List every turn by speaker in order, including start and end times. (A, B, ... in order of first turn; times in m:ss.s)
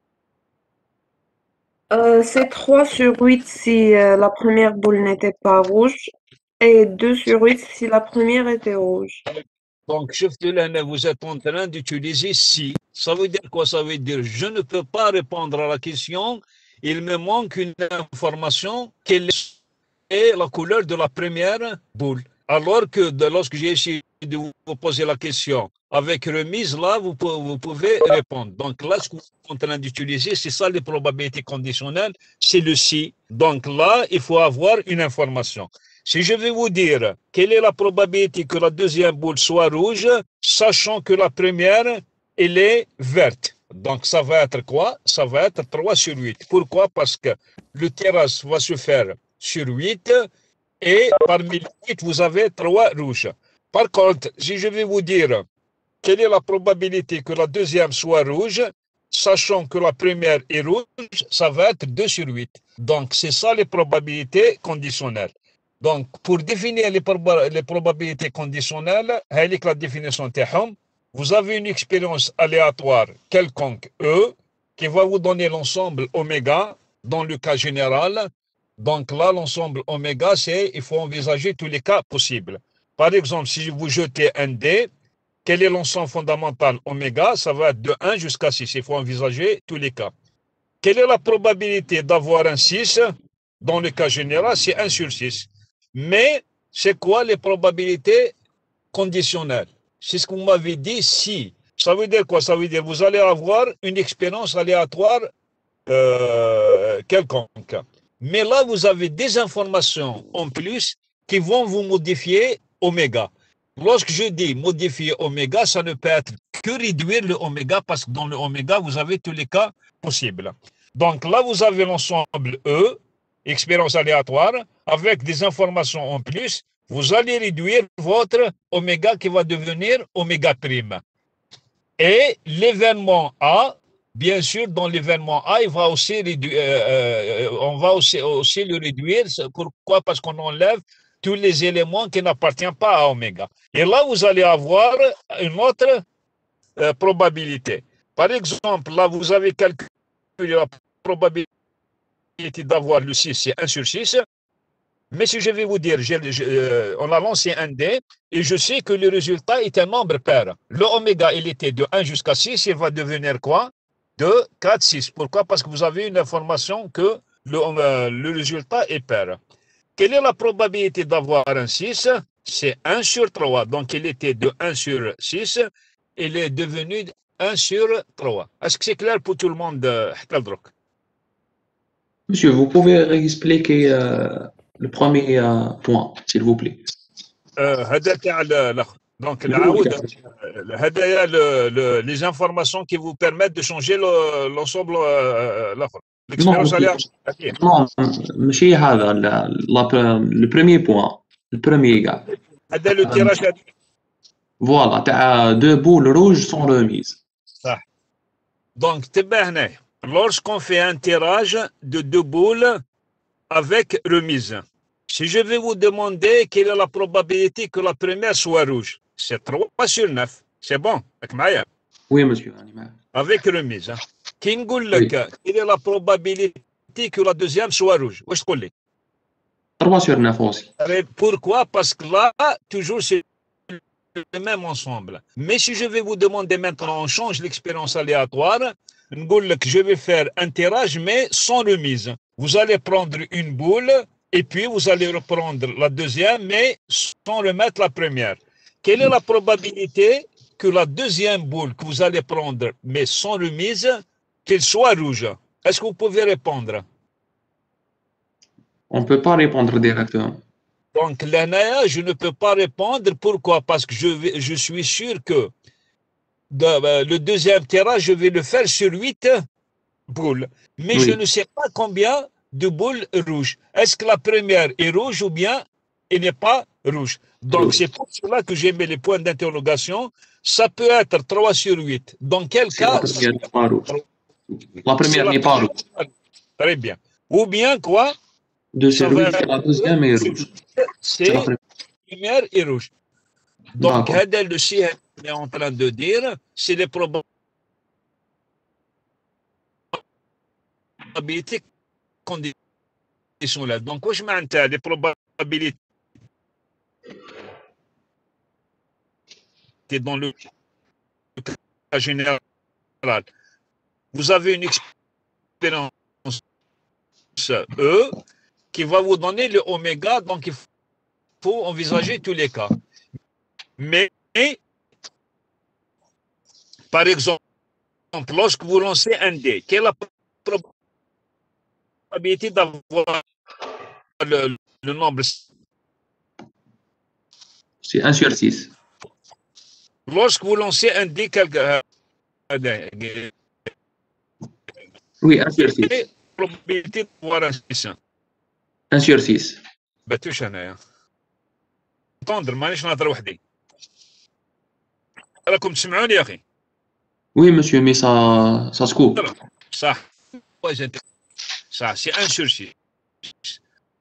0:01.9-0:09.2 A
0:09.3-0:19.5 B
0:20.1-0:50.3 B
0:50.8-0:55.4 B
0:56.0-1:24.9 B
1:25.4-1:30.1 B
1:30.8-1:38.3 B
1:38.9-1:45.3 B
1:45.9-2:11.0 B
2:12.0-2:26.0 B
2:26.8-2:29.8 B
2:30.4-2:31.5 B
2:32.4-2:34.2 B
2:35.1-2:49.4 B
2:50.0-3:00.7 B
3:02.3-3:06.8 C
3:07.6-3:17.6 B
3:09.5-3:10.0 C
3:16.4-3:17.0 C
3:17.6-3:22.2 C
3:22.7-3:23.6 B
3:23.0-3:23.3 C
3:24.6-3:27.2 C
3:28.8-3:32.8 B
3:33.5-3:41.6 B
3:42.1-3:42.9 C
3:43.1-3:48.7 B
3:49.8-3:50.7 C
3:50.8-4:16.8 B
4:18.9-4:20.4 C
4:20.9-4:25.5 B
4:26.5-4:29.4 B
4:30.1-4:43.3 B
4:30.9-4:31.2 C
4:37.5-4:37.8 C
4:42.7-4:43.8 C
4:44.8-4:45.7 C
4:45.0-4:48.1 B
4:48.7-4:50.5 C
4:48.9-4:51.5 B
4:51.3-4:51.6 C
4:52.1-4:52.9 B
4:53.8-4:54.2 C
4:53.8-4:57.2 B
5:01.1-5:01.6 B
5:02.2-5:02.5 B
5:03.4-5:05.8 B
5:09.9-5:10.3 B
5:11.4-5:12.4 B
5:14.1-5:14.8 B
5:15.6-5:16.4 B
5:17.4-5:18.2 B
5:18.7-5:20.6 B
5:21.4-5:22.7 B
5:23.8-5:24.6 B
5:26.9-5:27.4 B
5:28.1-5:30.6 B
5:32.1-5:33.2 B
5:34.2-5:35.4 B
5:37.8-5:38.7 C
5:40.1-5:41.8 B
5:42.5-5:43.3 B
5:45.2-5:46.0 C
5:45.8-5:48.0 B
5:48.9-5:49.6 C
5:50.1-5:50.8 B
5:52.2-5:53.4 B
5:55.4-5:56.4 B
5:57.3-5:59.2 C
5:59.1-6:00.0 B
6:00.6-6:01.0 B
6:01.7-6:02.7 B